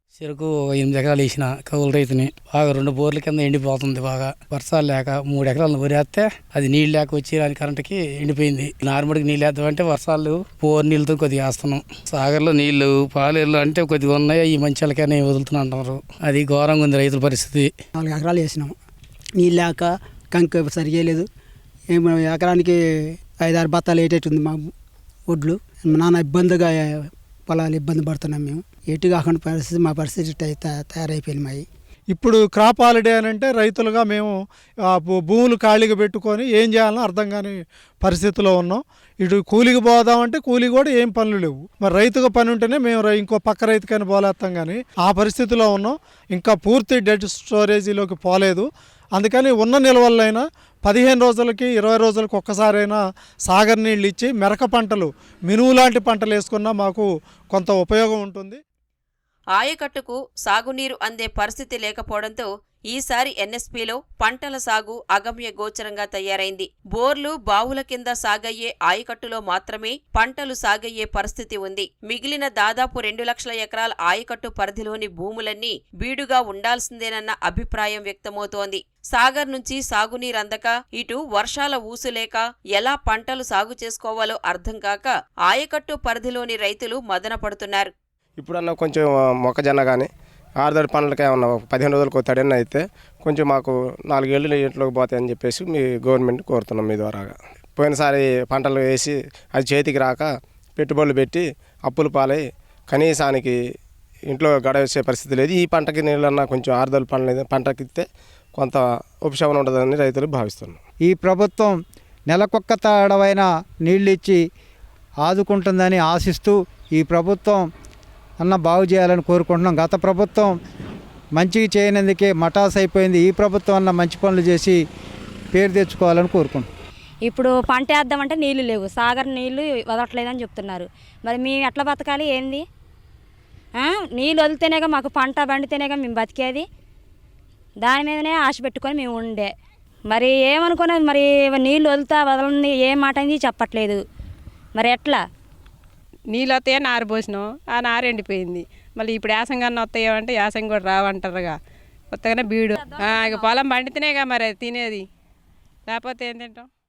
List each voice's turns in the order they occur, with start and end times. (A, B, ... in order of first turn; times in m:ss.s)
0:00.2-0:17.7 A
0:17.9-0:18.7 B
0:19.4-0:21.3 B
0:21.9-0:22.8 B
0:23.4-0:24.7 B
0:25.3-0:31.6 B
0:32.1-0:34.3 C
0:34.8-0:48.6 C
0:49.2-0:58.6 C
0:59.5-1:27.9 D
1:28.4-1:30.1 E
1:30.6-1:43.5 E
1:44.3-1:48.0 E
1:48.6-1:50.8 E
1:51.0-1:51.7 F
1:52.3-1:54.4 F
1:55.2-1:57.6 F
1:58.4-2:00.5 F
2:01.4-2:04.8 F
2:05.5-2:06.7 F
2:07.2-2:12.6 G
2:13.8-2:16.6 G
2:17.8-2:19.5 G
2:20.1-2:24.0 G
2:24.8-2:25.2 G
2:26.3-2:31.6 H
2:32.1-2:35.0 H
2:32.7-2:33.5 G
2:35.9-2:36.7 H